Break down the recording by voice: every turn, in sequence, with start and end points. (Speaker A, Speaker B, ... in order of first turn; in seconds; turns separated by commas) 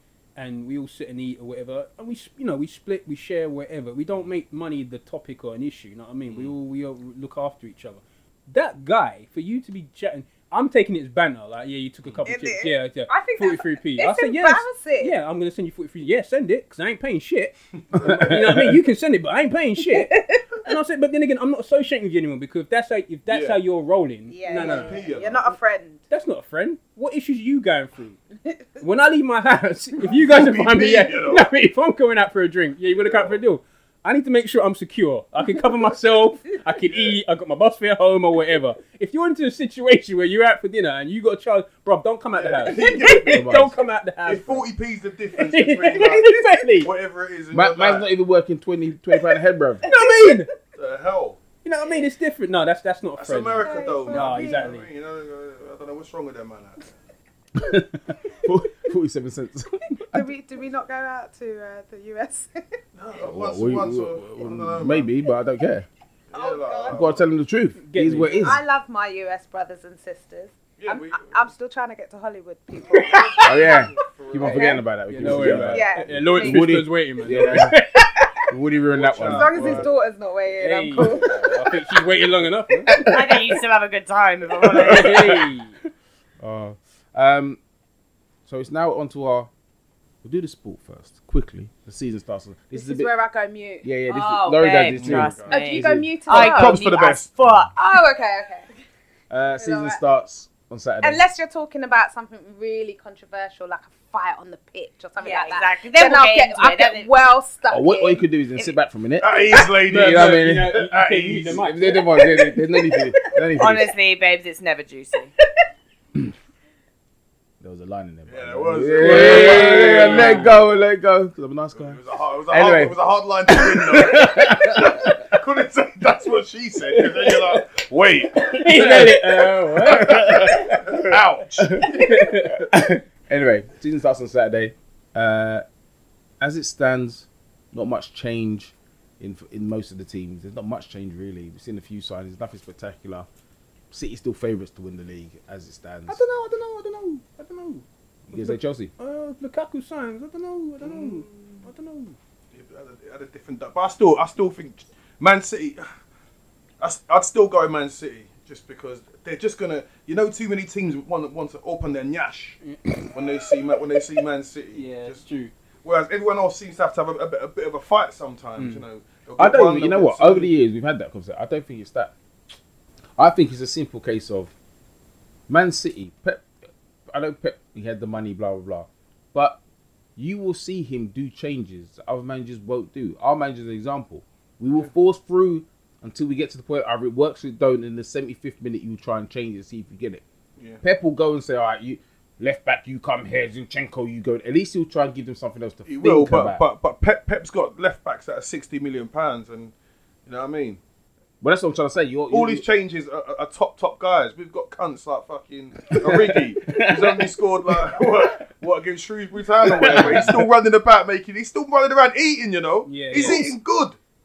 Speaker A: 0.4-25.0, Speaker B: 6.3-6.6, Speaker C: 12.2-15.2, Speaker D: 18.0-18.8, Speaker C: 19.9-20.5, Speaker B: 23.3-23.6, Speaker C: 24.3-26.0, Speaker B: 24.5-25.4, Speaker A: 26.1-28.2, Speaker A: 28.8-44.7, Speaker B: 30.0-31.5, Speaker B: 32.9-33.4, Speaker B: 36.9-37.2, Speaker B: 42.3-43.6, Speaker D: 43.3-43.8, Speaker B: 44.2-48.1, Speaker A: 45.4-46.9, Speaker D: 47.5-49.9, Speaker A: 49.8-50.5, Speaker B: 50.7-51.5, Speaker A: 51.6-54.9, Speaker B: 53.2-56.9, Speaker C: 53.6-54.8, Speaker D: 57.6-60.3, Speaker C: 60.1-62.6, Speaker B: 62.9-65.1, Speaker D: 63.2-65.9, Speaker B: 66.3-67.2, Speaker C: 66.3-67.2, Speaker D: 66.9-68.6, Speaker A: 67.8-68.6, Speaker C: 68.4-73.7, Speaker B: 70.8-71.4, Speaker B: 73.0-75.7, Speaker D: 73.4-77.8, Speaker C: 74.3-74.8, Speaker A: 75.1-78.1, Speaker C: 75.7-76.7, Speaker D: 78.5-79.9, Speaker B: 78.9-79.9, Speaker C: 79.2-81.5, Speaker A: 80.6-83.2, Speaker D: 82.9-83.3, Speaker E: 83.0-85.3, Speaker A: 84.8-85.8, Speaker D: 84.8-85.4, Speaker D: 86.4-87.6, Speaker D: 88.5-89.5, Speaker D: 90.2-93.1, Speaker C: 92.7-93.9, Speaker D: 93.8-96.1, Speaker E: 94.1-97.8, Speaker B: 94.9-95.6, Speaker C: 95.5-96.8, Speaker B: 96.3-97.3, Speaker C: 97.8-98.7, Speaker D: 99.3-101.2, Speaker C: 99.6-100.0, Speaker C: 101.0-108.7, Speaker E: 105.2-107.1, Speaker D: 107.7-110.8, Speaker B: 109.2-111.7, Speaker A: 109.9-112.6, Speaker D: 111.5-113.9, Speaker E: 113.6-115.3, Speaker D: 117.6-123.0, Speaker B: 118.3-120.6, Speaker A: 119.0-120.6, Speaker B: 121.7-128.9, Speaker D: 123.5-125.2, Speaker A: 127.0-127.6, Speaker A: 128.4-131.0, Speaker D: 128.7-135.6, Speaker B: 129.9-132.2, Speaker A: 131.8-132.7, Speaker D: 136.4-143.3, Speaker D: 143.9-146.2, Speaker A: 146.1-152.2, Speaker D: 148.3-148.9, Speaker B: 150.8-151.7, Speaker B: 152.5-155.8, Speaker B: 156.8-162.6, Speaker A: 162.6-163.4, Speaker B: 163.1-165.2, Speaker A: 164.8-165.5, Speaker B: 165.8-170.5, Speaker A: 168.6-168.8, Speaker D: 169.4-172.1, Speaker D: 173.2-174.5, Speaker D: 175.5-176.5, Speaker D: 177.1-179.6, Speaker D: 180.2-190.2, Speaker D: 190.8-196.6, Speaker B: 195.9-199.7, Speaker B: 200.3-200.8, Speaker D: 201.4-202.7, Speaker B: 202.3-214.0, Speaker D: 205.9-208.3, Speaker D: 209.6-210.5, Speaker A: 209.8-210.3, Speaker A: 212.9-213.5, Speaker D: 213.2-213.5